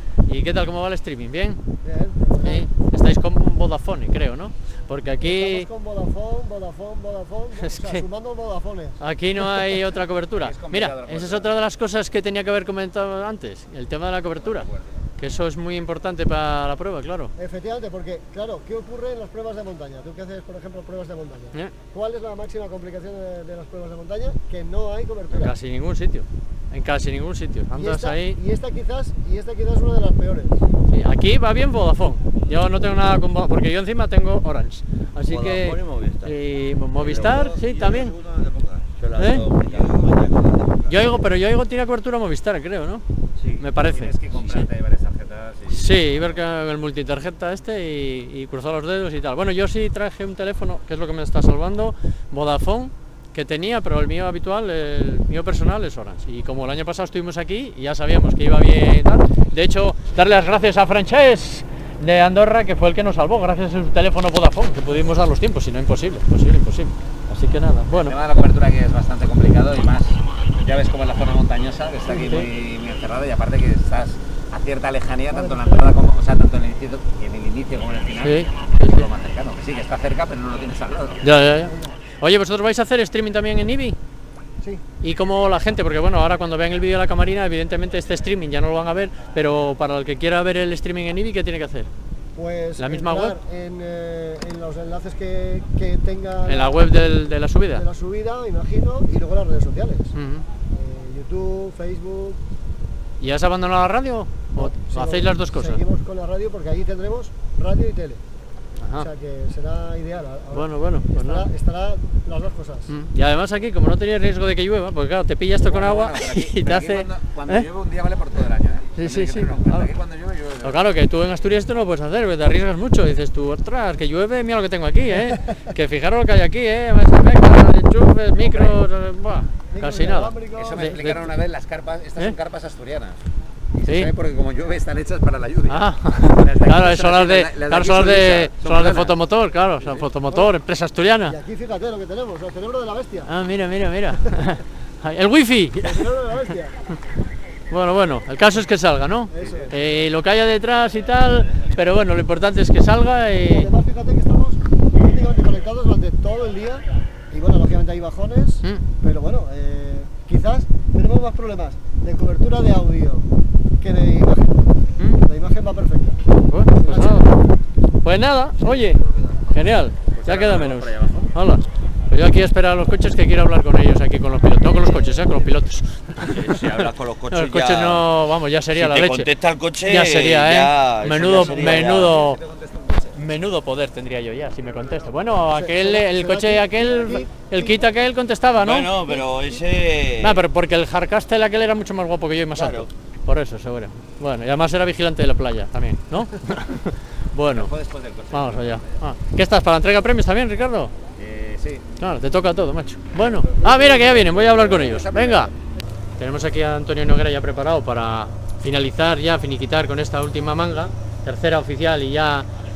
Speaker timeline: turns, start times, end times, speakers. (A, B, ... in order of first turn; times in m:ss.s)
0:00.3-0:01.6 A
0:01.8-0:02.7 B
0:02.4-0:05.7 A
0:05.2-0:09.0 B
0:07.6-0:08.0 A
0:09.0-0:17.3 A
0:10.4-0:11.4 C
0:17.4-0:25.5 B
0:25.3-0:28.4 A
0:27.7-0:30.6 B
0:30.9-0:38.1 A
0:37.0-0:38.9 C
0:37.0-0:37.9 D
0:39.0-0:40.1 D
0:39.2-0:39.5 A
0:39.4-0:41.0 C
0:40.9-0:43.0 A
0:43.4-0:46.3 C
0:43.6-0:44.6 A
0:45.7-1:08.1 A
1:07.9-1:21.2 C
1:15.3-1:15.8 B
1:18.2-1:19.0 A
1:21.2-1:24.0 A
1:25.0-1:31.9 A
1:32.3-1:36.8 B
1:32.8-1:33.4 A
1:36.4-1:37.8 A
1:37.7-1:40.1 B
1:40.1-1:40.4 A
1:40.7-1:42.4 B
1:43.2-1:45.8 A
1:44.5-1:48.2 B
1:49.0-1:52.9 B
1:50.5-1:51.4 A
1:52.9-1:57.6 A
1:55.6-2:00.7 C
1:59.0-1:59.9 A
2:00.6-2:11.2 A
2:08.4-2:08.8 C
2:09.7-2:10.8 B
2:10.6-2:13.2 C
2:13.8-2:15.7 C
2:13.8-2:14.1 A
2:15.7-2:21.4 A
2:16.4-2:19.1 C
2:21.3-2:23.3 B
2:23.2-2:26.0 A
2:25.8-2:26.7 B
2:27.7-2:33.7 A
2:29.3-2:29.7 B
2:33.5-2:43.3 B
2:43.8-2:44.6 B
2:45.2-2:46.2 B
2:46.5-2:47.4 A
2:48.0-2:56.4 A
2:50.1-2:51.3 C
2:56.8-2:58.0 D
2:57.3-2:59.3 A
2:58.8-3:02.0 D
2:59.8-3:02.4 A
3:01.3-3:02.0 C
3:03.1-3:09.0 A
3:05.5-3:07.8 B
3:08.7-3:09.6 D
3:10.2-3:17.7 A
3:17.5-3:18.8 C
3:18.3-3:20.9 A
3:21.2-3:21.8 C
3:22.0-3:25.5 A
3:26.2-3:32.5 A